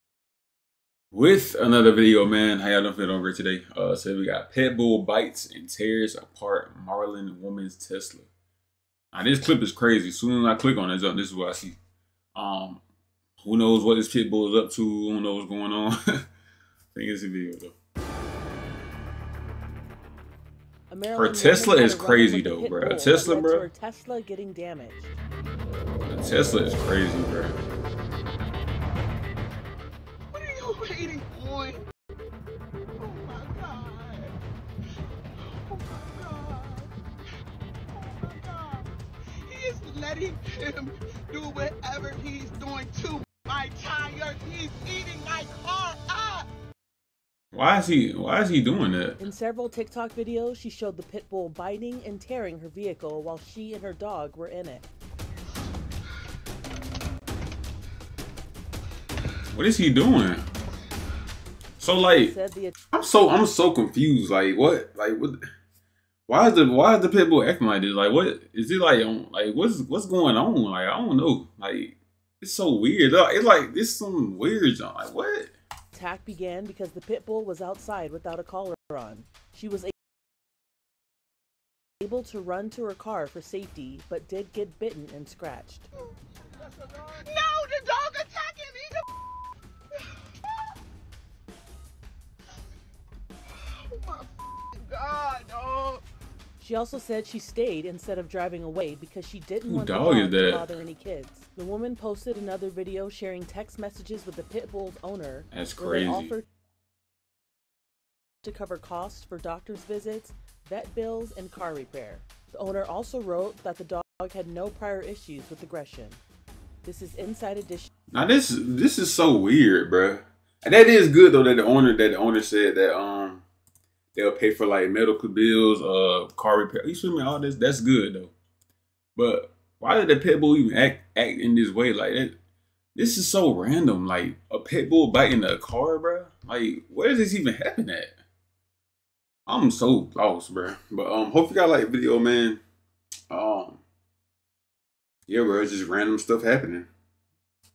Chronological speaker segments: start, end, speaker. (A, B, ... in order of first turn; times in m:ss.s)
0:01.1-0:08.3 A
0:09.1-0:11.8 A
0:12.4-0:12.8 A
0:13.4-0:16.0 A
0:16.9-0:17.7 A
0:20.9-0:25.1 B
0:21.1-0:23.7 A
0:26.0-0:27.5 A
0:30.3-0:31.8 C
0:33.0-0:34.4 C
0:35.4-0:36.9 C
0:37.9-0:38.9 C
0:39.4-0:46.5 C
0:47.5-0:49.2 A
0:49.2-0:54.9 B
0:59.5-1:00.4 A
1:01.8-1:02.3 A
1:02.2-1:02.8 B
1:02.9-1:05.4 A
1:06.3-1:15.5 A
1:15.9-1:19.9 B
1:22.0-1:25.9 B
1:26.6-1:29.1 C
1:33.5-1:36.0 C
1:36.6-1:46.4 B
1:39.7-1:40.7 A
1:45.5-1:46.3 A
1:48.4-1:56.2 B
1:56.8-1:57.9 B
1:58.1-2:03.4 A
2:04.2-2:08.3 A
2:09.2-2:12.3 A
2:12.9-2:18.2 A
2:19.4-2:22.6 A
2:23.3-2:23.8 A
2:25.3-2:26.9 A